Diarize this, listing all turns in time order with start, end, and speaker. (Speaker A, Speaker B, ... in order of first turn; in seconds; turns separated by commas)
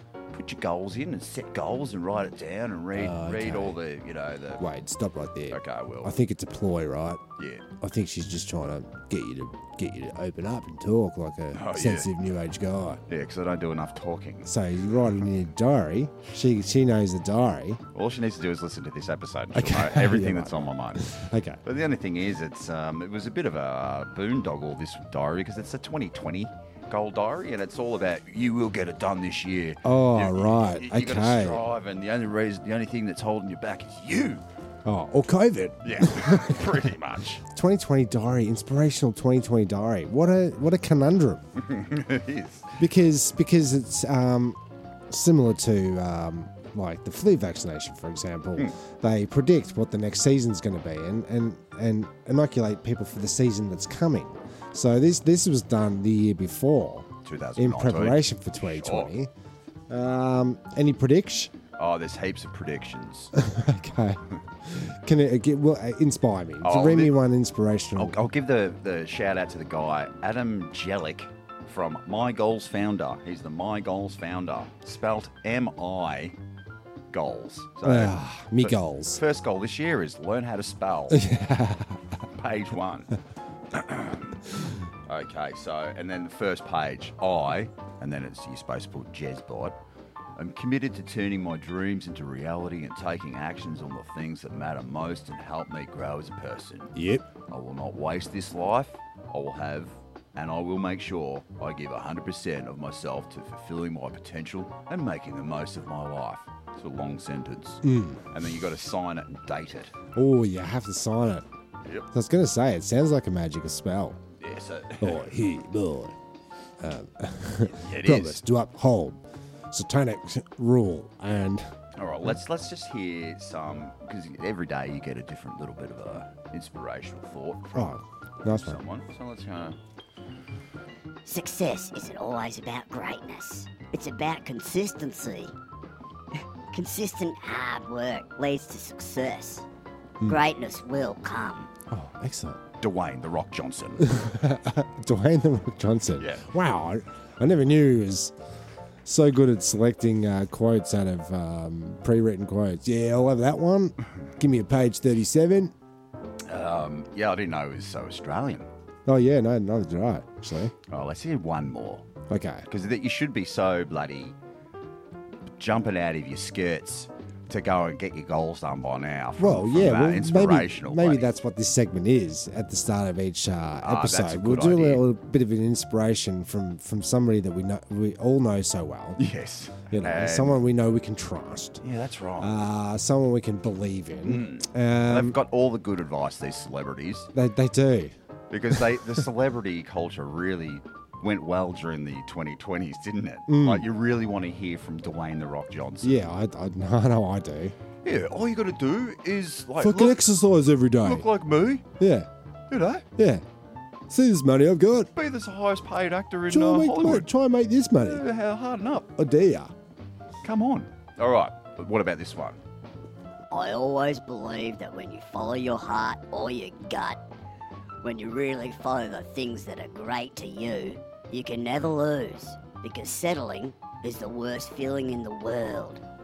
Speaker A: 0.3-4.6, Speaker B: 3.0-3.8, Speaker B: 4.6-7.2, Speaker A: 5.5-6.2, Speaker A: 7.4-7.7, Speaker B: 7.8-13.0, Speaker A: 11.5-12.1, Speaker A: 13.1-14.5, Speaker B: 14.5-17.8, Speaker A: 17.9-34.4, Speaker B: 19.5-21.6, Speaker B: 29.8-31.6, Speaker B: 34.9-36.8, Speaker A: 35.8-37.4, Speaker B: 37.5-41.4, Speaker A: 41.6-42.8, Speaker B: 42.8-59.3, Speaker A: 57.2-59.1, Speaker B: 59.9-61.5, Speaker A: 61.8-63.3, Speaker B: 63.4-68.2, Speaker A: 66.6-67.2, Speaker A: 68.0-76.3, Speaker A: 77.1-81.2, Speaker B: 77.8-79.2, Speaker B: 81.1-82.0, Speaker A: 82.3-83.2, Speaker A: 83.7-84.4, Speaker A: 85.1-89.8, Speaker A: 90.4-96.9, Speaker B: 97.0-97.2, Speaker A: 97.5-109.9, Speaker B: 107.8-108.2, Speaker B: 110.2-111.5, Speaker B: 112.1-114.2, Speaker A: 114.4-115.2, Speaker B: 115.0-116.2, Speaker B: 116.8-121.7, Speaker A: 117.6-118.4, Speaker A: 122.0-129.8, Speaker B: 127.8-128.8, Speaker C: 131.3-135.5, Speaker C: 136.7-139.7, Speaker C: 140.3-141.7, Speaker B: 141.9-142.6, Speaker A: 142.8-144.1, Speaker B: 144.0-148.3, Speaker A: 146.2-146.5, Speaker B: 149.1-155.7, Speaker A: 156.5-158.7, Speaker B: 159.1-160.7, Speaker A: 160.9-162.1, Speaker B: 162.3-162.7, Speaker A: 162.7-164.4, Speaker A: 165.6-171.3, Speaker B: 169.4-179.2, Speaker A: 173.8-175.0, Speaker A: 179.2-180.6, Speaker B: 179.9-181.8, Speaker A: 181.8-182.5, Speaker B: 182.4-185.4, Speaker A: 184.2-187.3, Speaker B: 187.3-188.1, Speaker A: 188.5-196.3, Speaker B: 193.5-193.9, Speaker B: 196.0-197.8, Speaker A: 198.0-200.2, Speaker B: 199.8-201.3, Speaker A: 201.0-201.8, Speaker B: 202.0-202.3, Speaker A: 202.7-203.1, Speaker B: 203.2-203.4, Speaker B: 204.1-205.1, Speaker A: 205.2-207.3, Speaker B: 206.5-208.2, Speaker A: 208.0-209.1, Speaker B: 209.2-209.7, Speaker A: 210.4-212.6, Speaker C: 213.5-217.2, Speaker C: 218.0-226.0